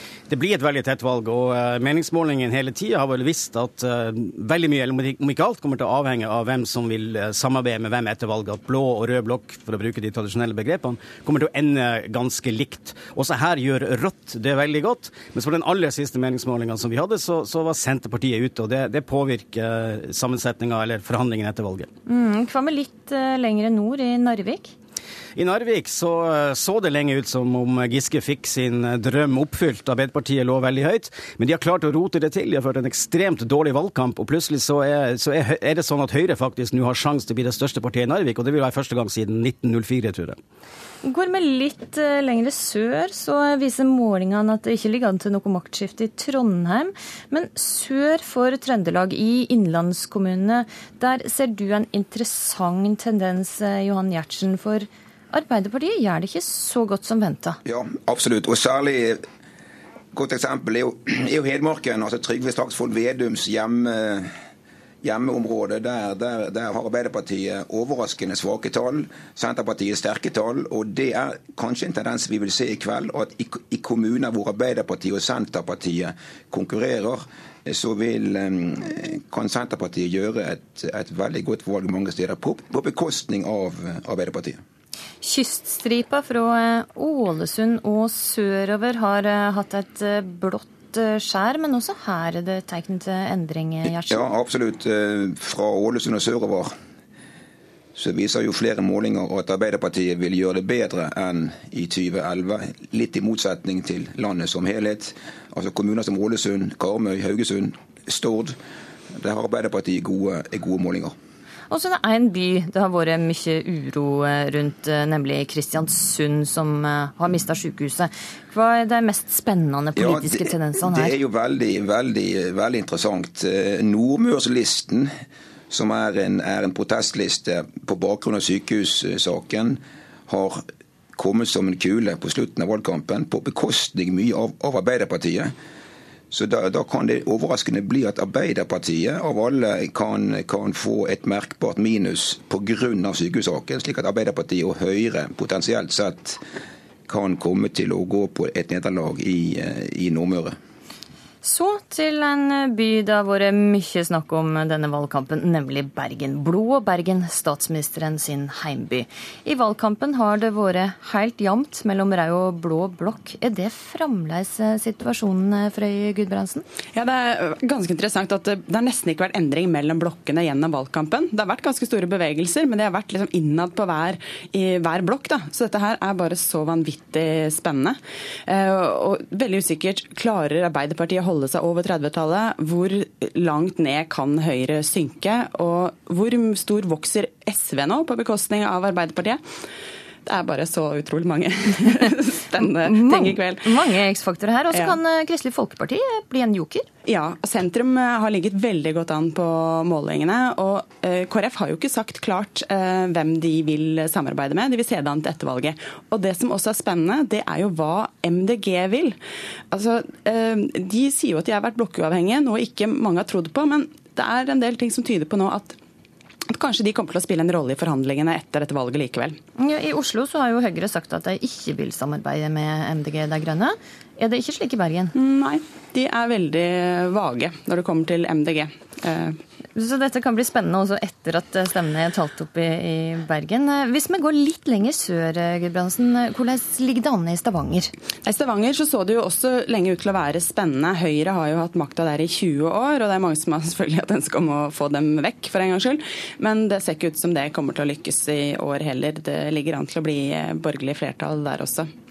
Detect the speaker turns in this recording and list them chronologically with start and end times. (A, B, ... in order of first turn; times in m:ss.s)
0:00.3-0:21.9 A
0:22.0-0:24.7 B
0:25.4-0:40.4 A
0:41.0-0:57.6 B
0:57.6-0:59.2 C
1:00.1-1:04.3 C
1:05.0-1:24.6 C
1:25.2-1:34.3 B
1:33.8-1:36.7 C
1:37.9-1:48.6 C
1:49.1-1:51.1 C
1:51.7-2:01.2 B
2:00.0-2:05.1 C
2:05.7-2:10.6 C
2:11.2-2:15.5 C
2:16.3-2:26.4 C
2:27.1-2:30.5 C
2:31.4-2:46.6 B
2:46.9-3:09.4 D
3:10.2-3:14.0 D
3:12.5-3:16.8 B
3:14.7-3:15.0 D
3:17.0-3:29.2 D
3:29.7-3:35.8 D
3:36.5-3:39.4 D
3:39.6-3:45.1 B
3:45.2-3:49.4 D
3:49.8-3:57.9 B
3:58.2-4:11.9 D